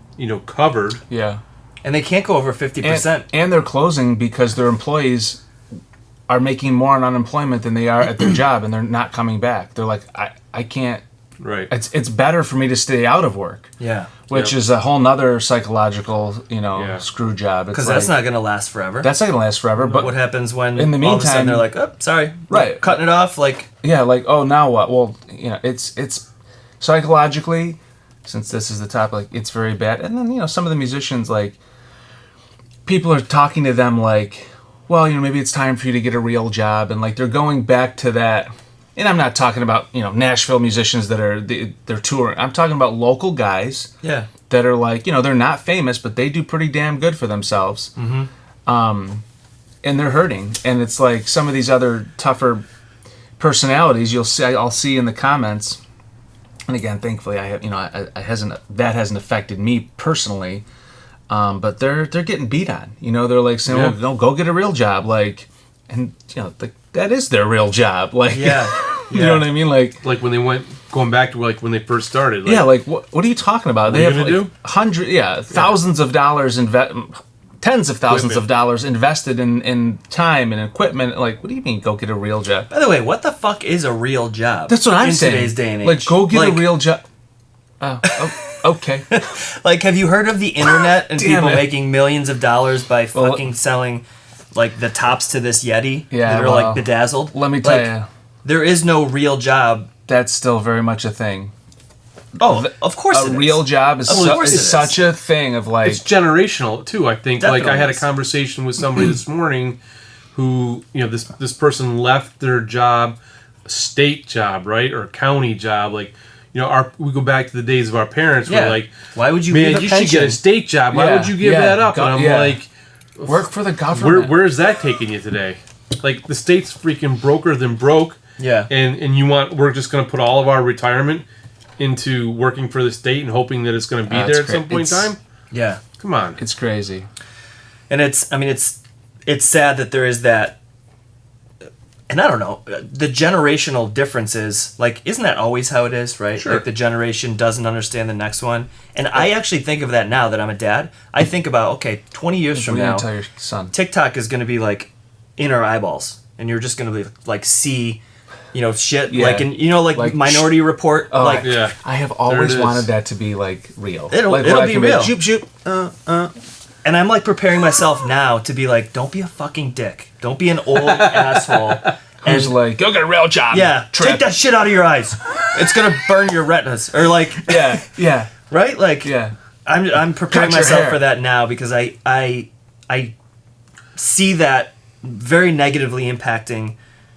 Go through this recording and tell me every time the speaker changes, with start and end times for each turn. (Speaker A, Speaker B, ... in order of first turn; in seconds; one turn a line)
Speaker A: 0.1-1.0
Speaker B: 1.1-1.4
Speaker C: 1.8-3.3
Speaker B: 2.8-5.4
Speaker B: 6.3-11.0
Speaker A: 11.4-11.7
Speaker B: 11.7-13.7
Speaker C: 13.8-14.2
Speaker B: 14.3-18.2
Speaker A: 14.3-14.6
Speaker A: 16.7-17.0
Speaker C: 17.7-19.1
Speaker B: 19.0-20.1
Speaker C: 19.9-23.7
Speaker B: 20.7-21.7
Speaker B: 22.5-22.9
Speaker B: 23.8-26.2
Speaker B: 26.8-31.6
Speaker B: 32.9-43.9
Speaker C: 44.0-44.3
Speaker B: 44.5-47.9
Speaker C: 48.0-48.3
Speaker B: 48.6-49.2
Speaker B: 49.8-52.6
Speaker B: 53.4-55.8
Speaker B: 56.7-60.6
Speaker B: 61.3-70.0
Speaker A: 63.6-64.0
Speaker C: 68.3-69.5
Speaker A: 70.0-72.7
Speaker B: 72.4-82.7
Speaker A: 73.9-74.5
Speaker A: 78.1-78.5
Speaker C: 82.7-86.7
Speaker B: 84.7-87.0
Speaker B: 87.8-89.1
Speaker C: 88.1-99.9
Speaker B: 91.1-91.7
Speaker B: 93.1-93.5
Speaker B: 96.1-98.1
Speaker B: 100.0-101.5
Speaker C: 102.4-105.0
Speaker B: 102.4-106.0
Speaker A: 104.1-104.7
Speaker A: 105.8-109.8
Speaker C: 107.4-108.1
Speaker A: 110.3-118.9
Speaker C: 118.5-120.4
Speaker A: 119.5-131.2
Speaker B: 120.9-122.6
Speaker B: 123.2-124.4
Speaker C: 128.4-128.7
Speaker A: 131.8-135.2
Speaker B: 134.1-135.1
Speaker C: 135.5-135.8
Speaker A: 136.0-136.4
Speaker B: 136.4-137.1
Speaker C: 137.9-140.6
Speaker C: 142.1-153.1
Speaker A: 146.4-146.6
Speaker B: 152.5-153.7
Speaker C: 153.7-158.0
Speaker C: 158.5-161.6
Speaker B: 159.1-166.3
Speaker A: 161.4-162.9
Speaker C: 164.1-165.1
Speaker C: 166.8-172.6
Speaker B: 172.2-174.3
Speaker C: 173.5-177.9
Speaker B: 177.4-178.4
Speaker C: 178.5-179.1
Speaker B: 179.0-179.3
Speaker C: 179.7-183.1
Speaker B: 180.3-181.0
Speaker C: 183.9-186.8